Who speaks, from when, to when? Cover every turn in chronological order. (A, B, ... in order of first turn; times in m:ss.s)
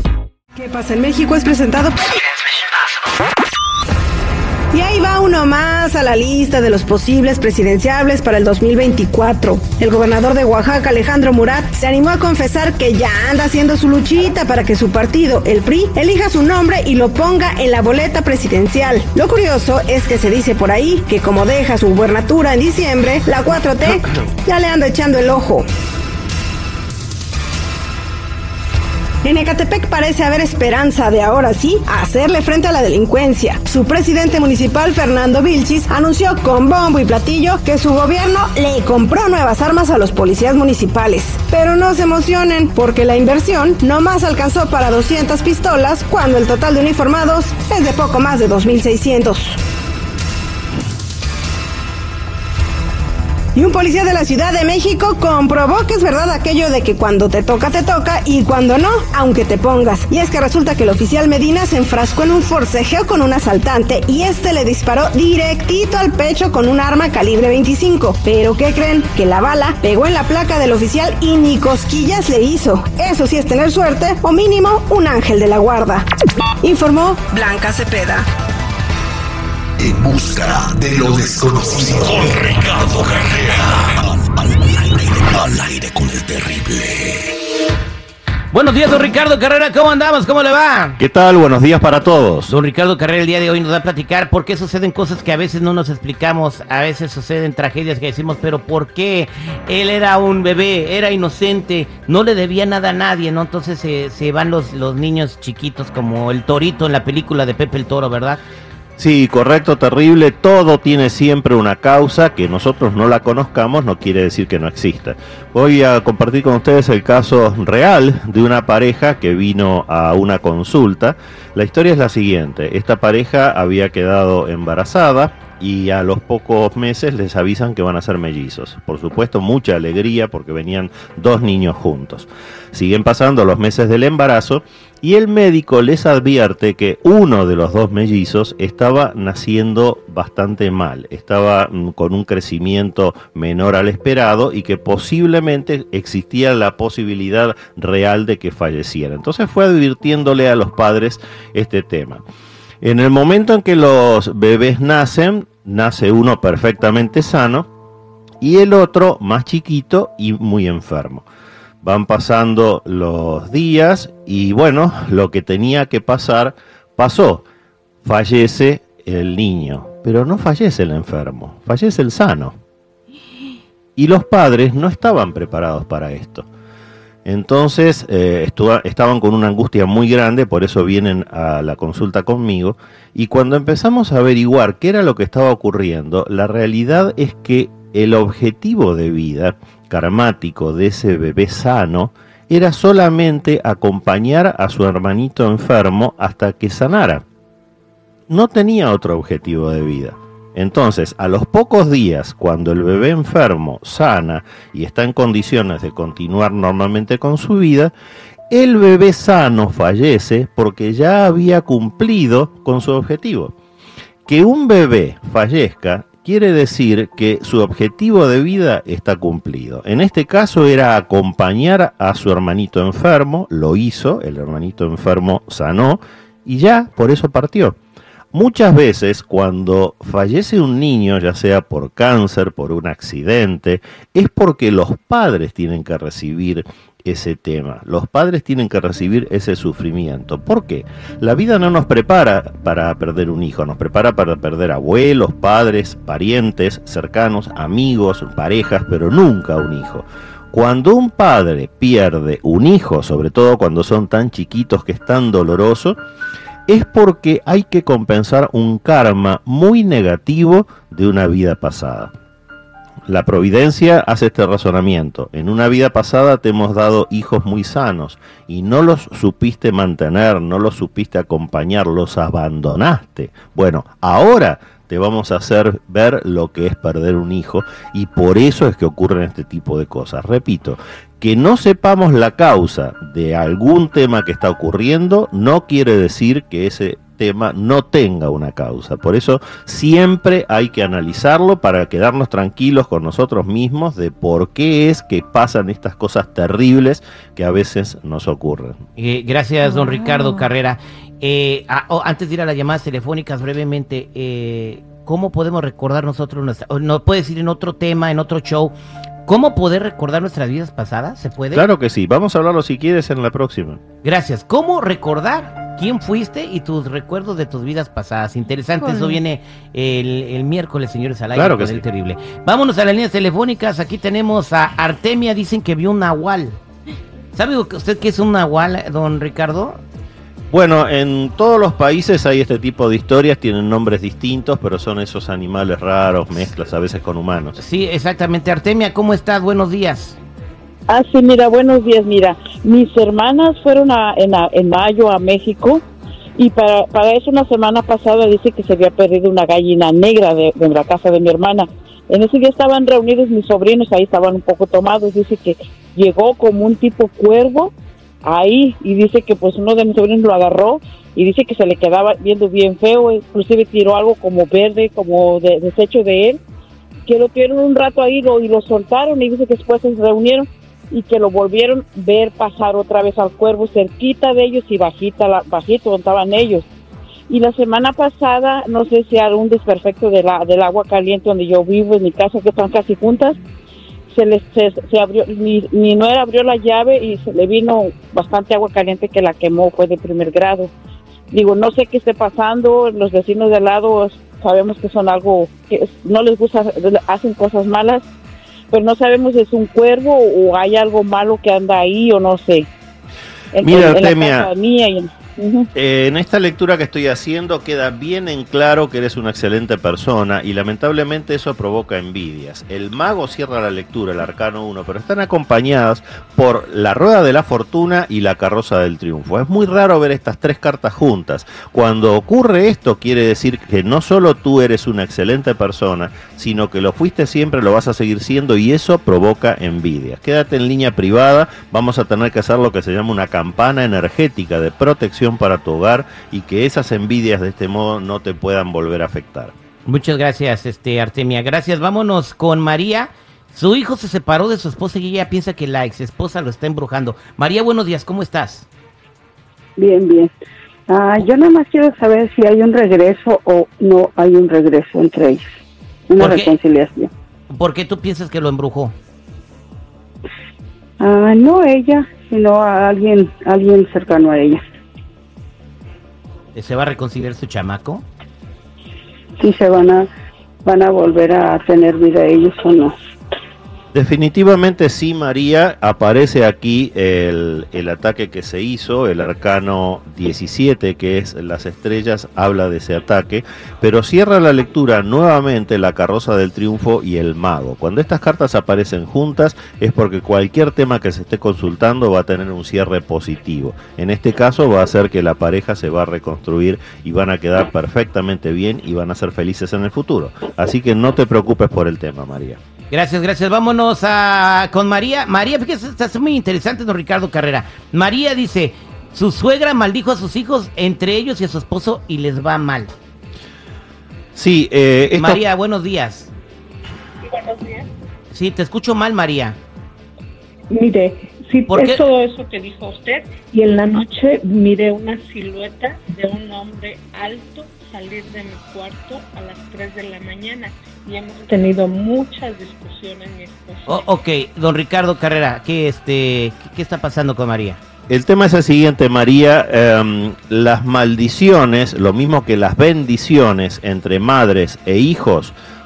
0:00.6-0:02.2 A
0:04.7-0:25.6 A
0:29.2-0:49.6 A
0:53.6-1:16.0 A
1:16.6-1:18.2 A
1:19.8-1:24.2 B
1:24.8-1:27.2 B
1:28.5-1:31.0 C
1:31.0-1:32.5 D
1:32.5-1:48.4 C
1:49.0-2:32.2 D
2:32.8-2:37.7 D
2:38.4-2:41.3 D
2:41.8-2:47.4 D
2:48.0-2:52.6 D
2:54.0-2:56.5 D
2:57.2-3:17.2 D
3:18.3-3:27.9 D
3:28.5-3:33.5 D
3:34.3-3:47.8 D
3:48.3-4:16.0 D
4:16.7-4:22.1 D
4:23.1-4:58.8 D
4:59.0-5:08.7 C
5:09.3-5:11.7 C
5:11.5-5:13.8 D
5:14.0-5:26.6 C
5:21.3-5:21.8 D
5:27.3-5:29.8 C
5:30.5-5:37.6 D
5:37.6-5:40.2 C
5:40.9-5:45.8 E
5:46.4-6:06.4 E
6:07.1-6:16.7 E
6:17.3-6:23.4 E
6:24.1-6:30.7 E
6:31.3-6:38.1 E
6:38.7-6:42.7 E
6:43.5-6:45.7 E
6:43.6-6:44.5 D
6:45.8-7:19.5 D
7:19.9-7:28.7 C
7:29.8-7:30.3 F
7:30.9-7:35.4 F
7:36.1-7:37.1 F
7:36.2-7:36.6 C
7:37.5-7:39.0 C
7:41.0-7:44.6 F
7:46.5-7:48.0 C
7:49.4-7:50.1 F
7:50.6-7:53.0 F
7:53.9-8:22.6 D
8:22.9-8:32.9 C
8:34.4-8:35.4 D
8:35.2-8:36.3 C
8:37.2-8:37.9 G
8:38.3-8:39.6 C
8:40.7-8:54.1 G
8:41.7-8:42.0 C
8:53.9-8:57.8 C
8:58.1-9:05.6 D